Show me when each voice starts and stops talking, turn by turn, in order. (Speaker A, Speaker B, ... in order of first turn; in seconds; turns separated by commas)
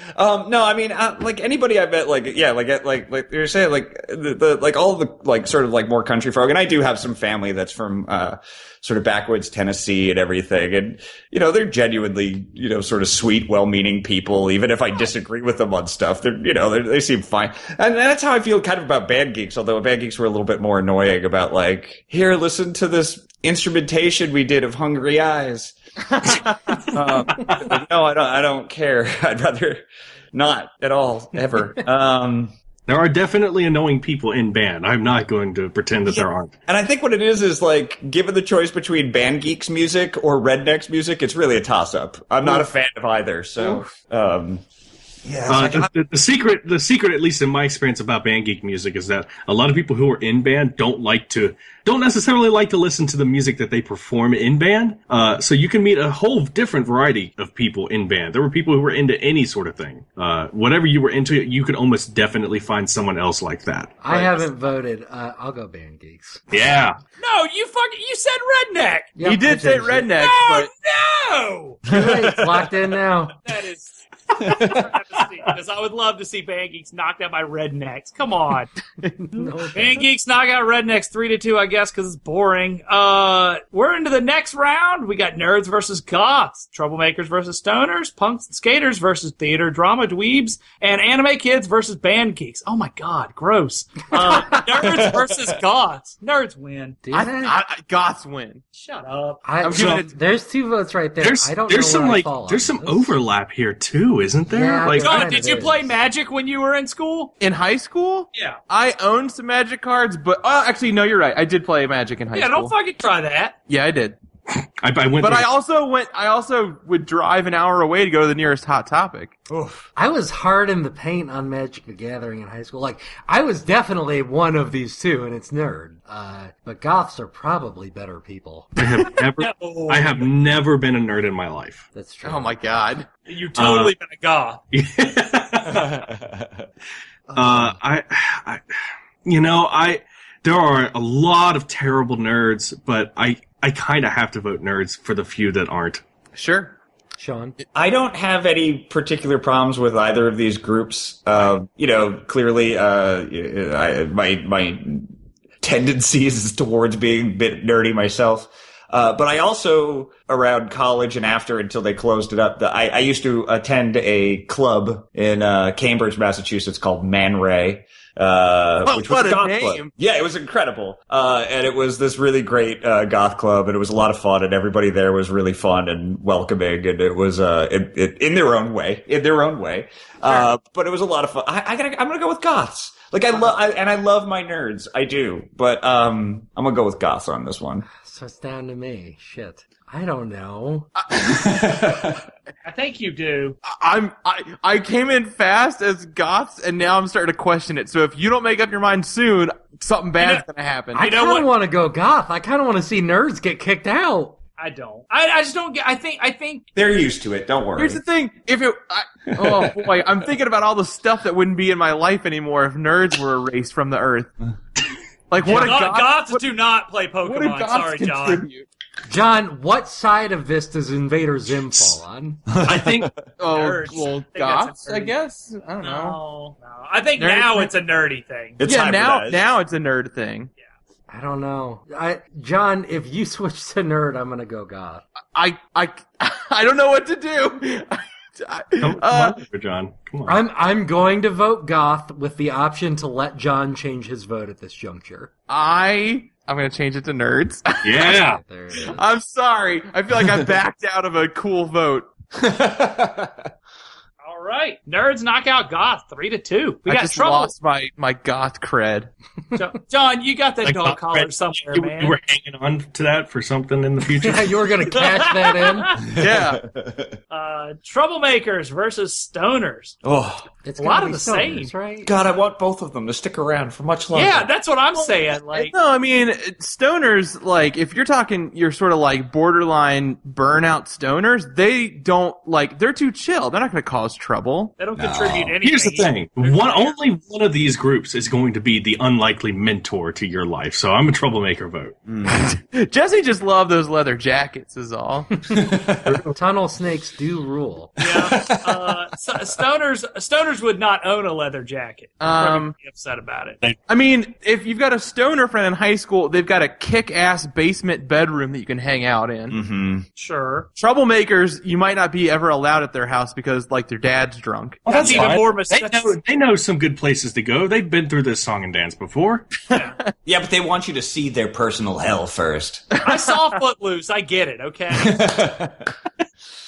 Speaker A: 0.2-29.8, Speaker B: 26.9-27.6, Speaker A: 30.3-32.5, Speaker B: 32.9-36.6, Speaker A: 36.1-44.6, Speaker C: 43.6-43.9, Speaker A: 45.2-45.9, Speaker B: 45.5-64.4, Speaker D: 64.0-66.4, Speaker B: 66.5-67.0, Speaker E: 67.2-69.2, Speaker D: 69.2-70.2, Speaker C: 69.2-70.7, Speaker E: 70.2-71.8, Speaker D: 71.9-73.4, Speaker A: 71.9-72.6, Speaker E: 73.5-78.7, Speaker A: 74.4-74.9, Speaker C: 79.0-79.5, Speaker D: 79.3-80.1, Speaker E: 79.7-97.0, Speaker A: 94.8-95.3, Speaker D: 97.0-97.6, Speaker C: 97.1-98.6, Speaker E: 98.8-99.4, Speaker D: 99.4-103.2, Speaker C: 99.6-100.1, Speaker B: 99.7-100.0, Speaker B: 101.2-105.4, Speaker D: 104.5-106.0, Speaker E: 104.9-107.3, Speaker C: 107.4-112.7, Speaker E: 108.3-108.6, Speaker E: 112.3-113.5, Speaker C: 113.7-114.2, Speaker B: 114.8-115.5, Speaker C: 115.2-119.4, Speaker A: 119.5-119.9, Speaker D: 120.0-128.7, Speaker B: 128.8-131.9, Speaker E: 129.4-130.3, Speaker D: 131.9-132.6, Speaker C: 132.2-133.1, Speaker E: 133.3-134.6, Speaker B: 133.6-133.9, Speaker B: 134.7-136.0, Speaker A: 135.7-136.7, Speaker B: 137.3-138.6, Speaker D: 137.4-137.7, Speaker B: 139.2-146.0, Speaker C: 146.3-146.8, Speaker D: 147.2-147.6, Speaker A: 147.7-155.1, Speaker A: 155.6-187.9, Speaker C: 168.8-169.9, Speaker D: 187.9-190.9, Speaker A: 191.1-192.2, Speaker E: 192.6-193.6, Speaker C: 193.7-201.1, Speaker E: 200.2-200.4, Speaker D: 200.9-204.4, Speaker E: 201.0-201.5, Speaker E: 204.6-206.7, Speaker A: 206.8-208.0, Speaker C: 207.8-214.3, Speaker A: 209.3-209.9, Speaker C: 215.3-216.4, Speaker E: 215.4-218.4, Speaker C: 217.3-218.7, Speaker D: 219.1-222.5, Speaker A: 222.5-223.2, Speaker B: 222.6-223.1, Speaker C: 223.4-226.2, Speaker E: 223.5-225.2, Speaker E: 225.8-228.6, Speaker C: 227.2-227.7, Speaker A: 228.6-229.4, Speaker C: 228.6-230.5, Speaker D: 231.1-235.0, Speaker C: 235.3-239.4, Speaker B: 238.8-240.4, Speaker D: 240.3-245.3, Speaker C: 245.5-248.2, Speaker B: 247.8-248.4, Speaker D: 248.0-249.1, Speaker C: 248.7-252.1, Speaker A: 252.3-253.5, Speaker E: 254.2-257.5, Speaker C: 256.9-259.1, Speaker E: 259.5-262.2, Speaker B: 260.6-264.7, Speaker D: 264.2-266.0, Speaker E: 264.9-266.0, Speaker C: 266.2-266.6, Speaker A: 266.2-267.1, Speaker E: 267.3-270.0, Speaker A: 270.0-270.5, Speaker D: 270.6-272.1, Speaker E: 270.8-271.7, Speaker A: 272.0-274.5, Speaker E: 274.1-275.7, Speaker C: 275.5-284.8, Speaker E: 284.8-287.0, Speaker A: 285.0-285.6, Speaker B: 285.6-292.0, Speaker A: 292.1-292.5, Speaker C: 292.3-295.3, Speaker A: 295.5-296.2, Speaker B: 296.1-296.4, Speaker D: 296.4-298.0, Speaker E: 298.0-303.6, Speaker A: 298.2-298.8, Speaker C: 302.2-302.8, Speaker C: 303.9-309.6, Speaker A: 309.5-310.1, Speaker E: 310.1-310.7, Speaker C: 310.8-314.9, Speaker B: 314.9-319.5, Speaker E: 314.9-316.2, Speaker A: 315.0-315.4, Speaker E: 319.7-320.0, Speaker C: 319.7-320.1, Speaker A: 320.2-322.9, Speaker E: 323.0-325.2, Speaker A: 324.9-325.9